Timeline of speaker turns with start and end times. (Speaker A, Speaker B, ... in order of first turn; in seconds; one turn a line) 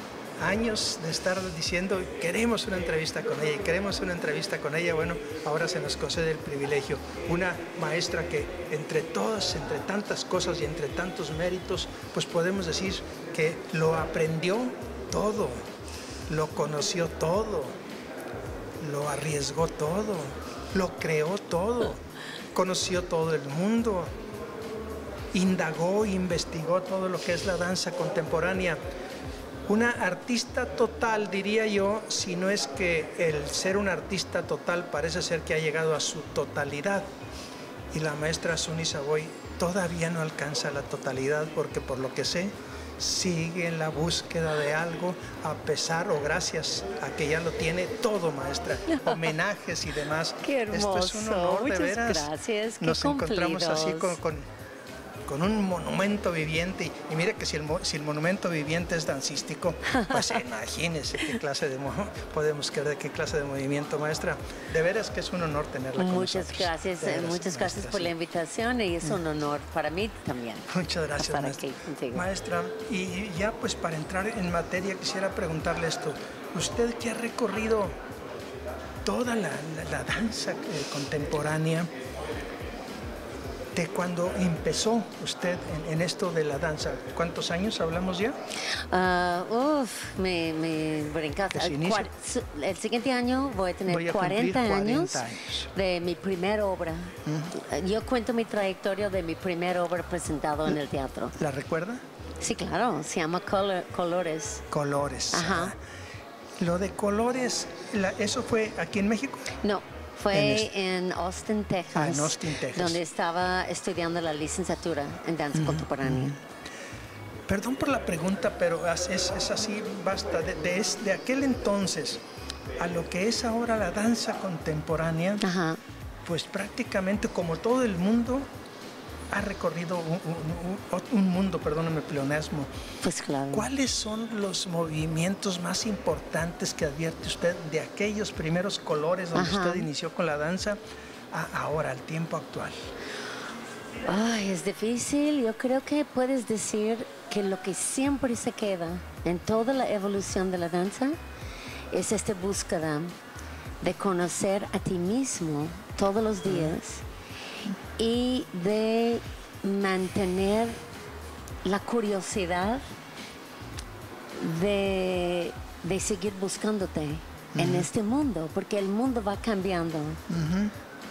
Speaker A: 0.4-15.6
Speaker A: 16.3-17.8
Speaker A: 18.8-24.1
Speaker A: 25.3-28.8
Speaker A: 29.7-37.1
Speaker A: 37.9-54.5
Speaker B: 48.9-49.3
Speaker B: 50.4-54.2
Speaker A: 55.2-68.1
Speaker B: 59.9-60.2
Speaker B: 66.0-72.3
Speaker A: 70.7-78.0
Speaker A: 79.0-81.9
Speaker A: 83.7-88.3
Speaker B: 88.9-101.3
Speaker A: 91.5-92.1
Speaker A: 93.9-95.7
Speaker A: 97.2-97.5
Speaker A: 101.4-102.0
Speaker B: 102.4-104.6
Speaker A: 104.7-105.8
Speaker B: 105.3-105.7
Speaker A: 106.6-109.5
Speaker B: 109.6-116.4
Speaker A: 110.3-110.7
Speaker A: 111.9-113.0
Speaker A: 115.5-116.4
Speaker A: 117.5-122.2
Speaker A: 122.8-125.5
Speaker B: 125.4-125.8
Speaker A: 126.2-128.5
Speaker A: 129.3-132.7
Speaker B: 133.0-133.7
Speaker A: 133.5-140.8
Speaker B: 139.3-139.9
Speaker A: 141.3-142.9
Speaker B: 144.0-151.2
Speaker B: 151.9-153.1
Speaker B: 153.8-157.0
Speaker A: 156.4-156.8
Speaker B: 158.0-160.8
Speaker B: 161.6-162.8
Speaker B: 164.3-170.2
Speaker A: 167.6-167.9
Speaker A: 170.3-170.7